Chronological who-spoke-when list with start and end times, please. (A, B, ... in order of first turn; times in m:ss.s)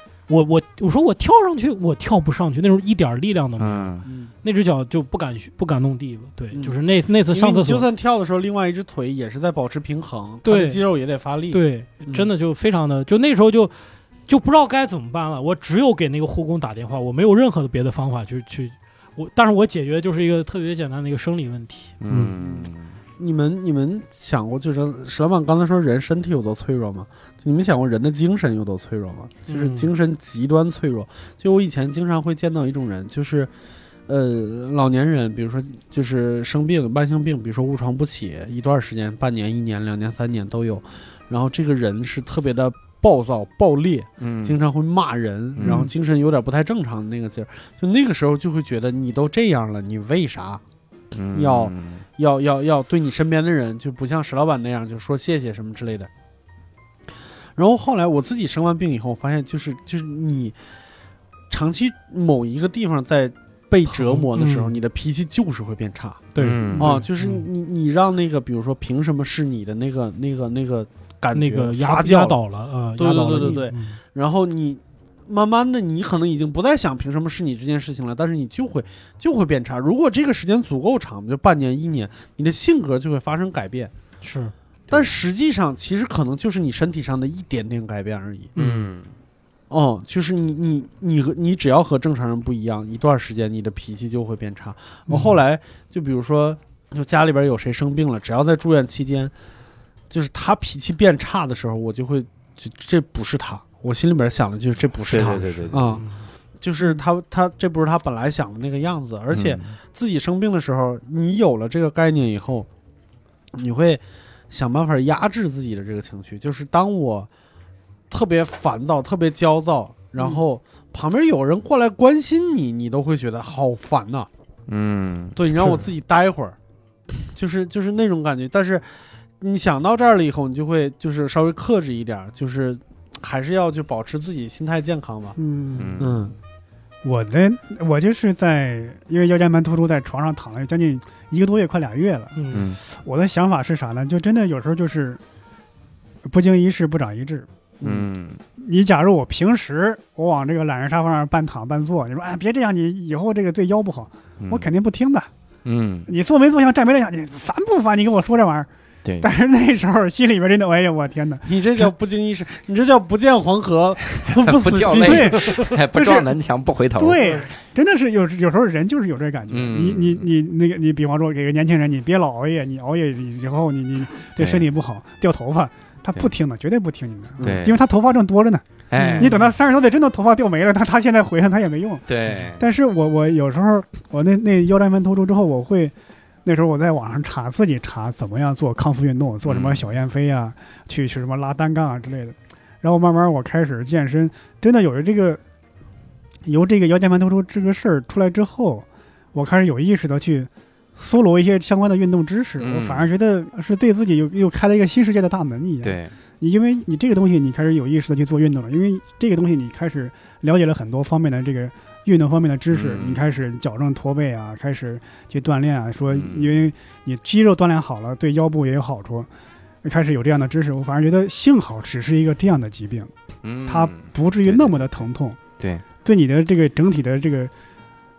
0:00.3-0:07.8 A
0:03.6-0:04.1 B
0:04.1-0:04.3 C
0:07.3-0:12.3 C
0:10.4-0:10.8 A
0:11.5-0:13.8 A
0:14.3-0:22.4 A
0:22.0-0:22.9 B
0:22.4-0:33.5 C
0:29.5-0:29.9 A
0:34.1-0:50.6 C
0:44.2-0:44.6 B
0:45.6-0:45.9 B
0:45.6-0:45.9 D
0:51.1-0:52.0 B
0:51.3-0:56.1 C
0:57.6-1:00.6 C
1:01.5-1:06.2 C
1:03.9-1:04.8 A
1:06.4-1:07.5 A
1:06.4-1:07.0 B
1:06.8-1:12.4 C
1:11.3-1:14.0 A
1:13.0-1:23.9 C
1:24.2-1:24.5 A
1:24.9-1:25.2 B
1:24.9-1:28.5 C
1:28.6-1:28.9 A
1:28.6-1:29.1 B
1:29.7-1:39.3 C
1:40.1-1:46.1 C
1:45.0-1:46.0 B
1:45.9-1:46.3 A
1:46.6-1:52.7 C
1:49.3-1:49.7 B
1:53.5-1:57.3 C
1:58.1-2:04.3 C
2:04.7-2:05.8 B
2:05.4-2:06.6 C
2:07.1-2:15.4 C
2:15.4-2:16.1 D
2:15.8-2:16.3 B
2:16.0-2:16.3 C
2:17.0-2:25.2 D
2:22.4-2:22.7 A
2:22.5-2:22.8 B
2:26.2-2:27.9 D
2:27.8-2:28.4 B
2:28.6-2:35.3 D
2:34.4-2:34.7 B
2:35.6-2:36.1 B
2:36.1-2:38.7 D
2:39.0-2:39.3 B
2:39.2-2:41.5 D
2:41.5-2:45.8 C
2:44.2-2:47.2 B
2:45.0-2:46.3 D
2:47.0-3:15.4 D
2:49.5-2:50.3 B
2:54.4-2:54.7 B
2:57.4-2:57.7 C
2:57.4-2:57.8 B
2:58.9-2:59.4 B
2:59.0-2:59.4 A
3:02.1-3:02.6 B
3:09.4-3:09.8 B
3:16.5-3:39.3 D
3:22.6-3:23.1 B
3:25.8-3:26.1 B
3:32.7-3:33.2 B
3:36.1-3:36.6 B
3:39.8-3:43.1 D
3:43.4-3:44.8 B
3:43.6-3:45.4 D
3:45.6-3:45.8 B
3:46.0-3:47.5 D